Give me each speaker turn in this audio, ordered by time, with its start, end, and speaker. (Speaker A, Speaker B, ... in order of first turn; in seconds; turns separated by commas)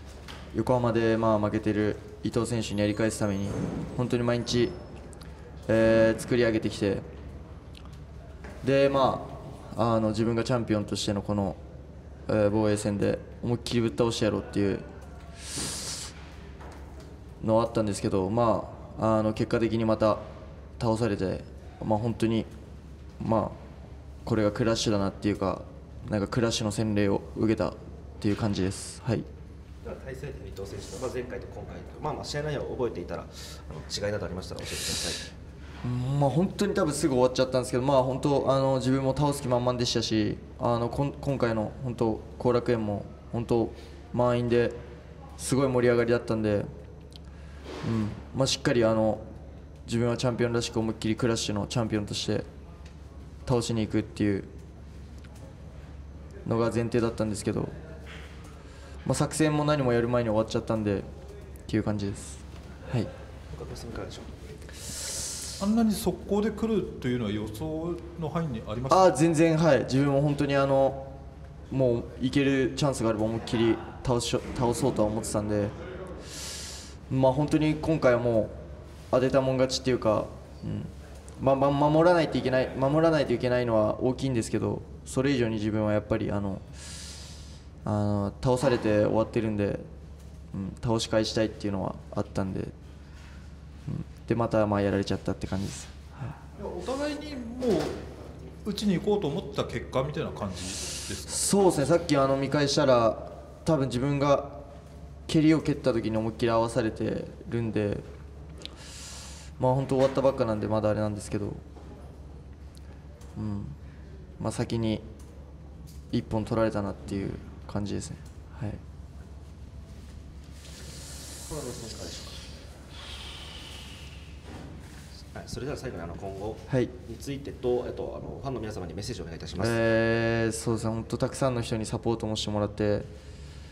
Speaker A: 0.5-4.7, Speaker A: 5.7-7.0, Speaker A: 8.6-11.6, Speaker A: 12.3-14.8, Speaker A: 17.4-20.2, Speaker A: 20.8-22.5, Speaker A: 23.2-23.6, Speaker A: 24.2-29.3, Speaker B: 29.8-35.3, Speaker A: 35.8-44.8, Speaker A: 45.4-46.7, Speaker A: 47.8-49.2, Speaker A: 49.9-52.5, Speaker A: 53.4-54.5, Speaker A: 56.4-57.7, Speaker A: 59.0-61.1, Speaker A: 61.7-63.1, Speaker B: 63.5-64.4, Speaker C: 65.6-69.1, Speaker A: 68.9-71.1, Speaker A: 71.7-75.7, Speaker A: 77.1-78.5, Speaker A: 79.1-86.9, Speaker A: 87.8-89.9, Speaker A: 90.5-92.7, Speaker A: 93.9-95.9, Speaker C: 96.6-98.0, Speaker C: 98.6-101.5, Speaker A: 101.3-104.6, Speaker A: 105.3-108.0, Speaker A: 109.6-111.6, Speaker A: 113.3-113.7, Speaker A: 114.4-115.0, Speaker A: 116.1-118.8, Speaker B: 121.4-122.4, Speaker B: 125.3-129.8, Speaker A: 129.6-133.1